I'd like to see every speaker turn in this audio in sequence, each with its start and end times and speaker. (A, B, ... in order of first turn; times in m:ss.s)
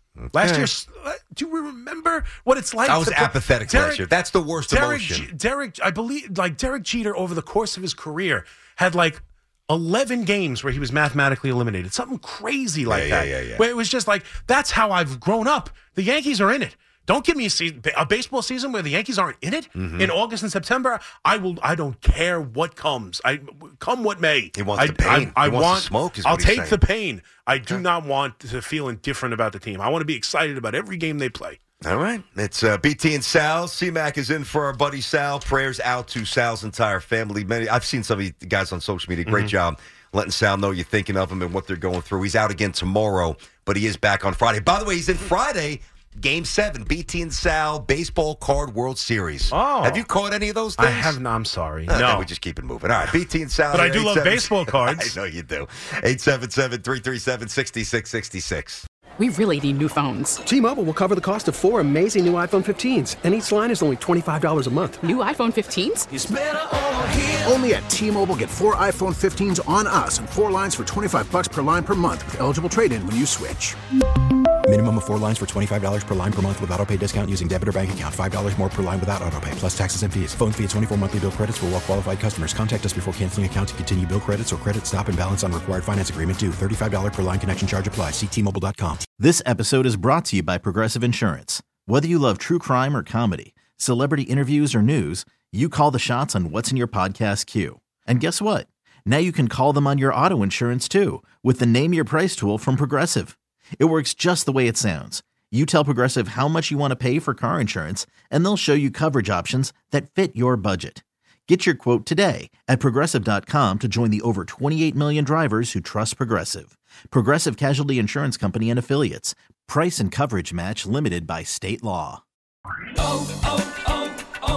0:00.2-0:00.7 A
0:00.3-0:04.1 B
0:02.8-0:05.3 A
0:04.7-0:31.6 B
0:12.9-0:13.7 A
0:19.8-0:20.2 A
0:24.6-0:26.8 A
0:31.8-0:51.2 A
0:39.3-0:39.5 B
0:49.5-0:50.0 B
0:50.8-0:52.3 B
0:51.9-0:58.8 A
0:53.7-0:55.1 B
1:00.3-1:05.8 C
1:06.1-1:13.8 D
1:14.7-1:29.0 E
1:29.2-2:02.2 F